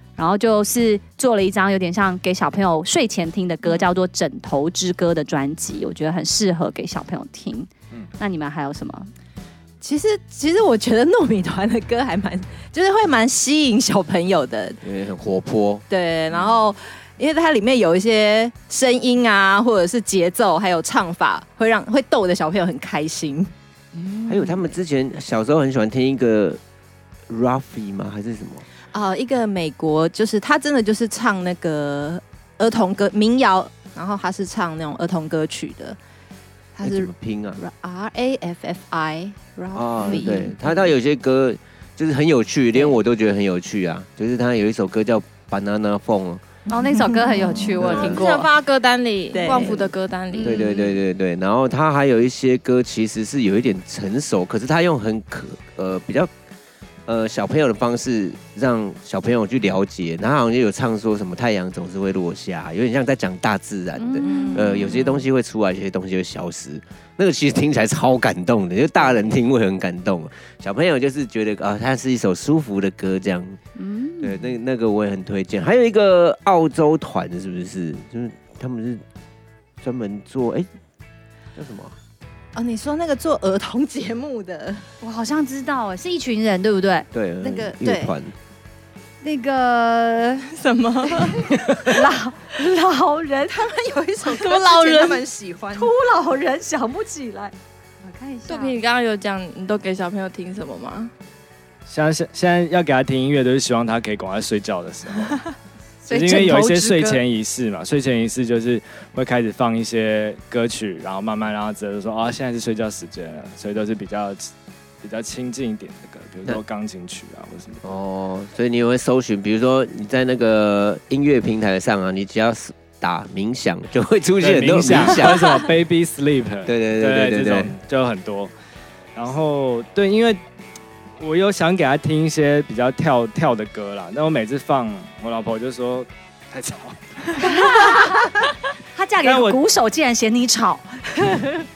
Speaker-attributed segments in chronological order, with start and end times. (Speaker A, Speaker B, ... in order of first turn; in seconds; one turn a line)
Speaker A: 0.2-9.1
Speaker B: 9.8-14.8
Speaker C: 14.8-15.8
Speaker B: 15.9-24.5
Speaker C: 24.2-26.6
Speaker C: 27.3-28.6
Speaker B: 28.9-36.0
Speaker B: 36.8-40.8
Speaker C: 36.8-37.6
Speaker C: 39.7-46.4
Speaker A: 46.7-48.5
Speaker B: 46.9-47.8
Speaker C: 47.7-48.2
Speaker D: 47.9-50.6
Speaker B: 49.3-49.9
Speaker A: 50.4-50.8
Speaker C: 50.4-56.3
Speaker C: 57.0-73.6
Speaker A: 64.0-65.2
Speaker B: 64.2-64.9
Speaker A: 73.8-74.5
Speaker C: 74.2-79.0
Speaker C: 79.8-80.7
Speaker C: 81.5-81.9
Speaker B: 82.5-84.8
Speaker A: 85.0-87.0
Speaker C: 87.1-88.3
Speaker B: 87.4-88.1
Speaker A: 89.2-90.5
Speaker D: 90.5-91.5
Speaker A: 91.8-93.6
Speaker B: 93.5-95.9
Speaker D: 94.4-95.2
Speaker A: 95.7-98.8
Speaker D: 98.5-101.1
Speaker E: 101.9-105.4
Speaker A: 106.1-107.2
Speaker E: 106.1-114.5
Speaker E: 115.0-117.8
Speaker C: 117.8-125.5
Speaker E: 124.4-128.5
Speaker C: 126.7-127.7
Speaker E: 129.1-130.4
Speaker E: 131.2-138.0
Speaker A: 137.4-141.6
Speaker E: 139.2-139.6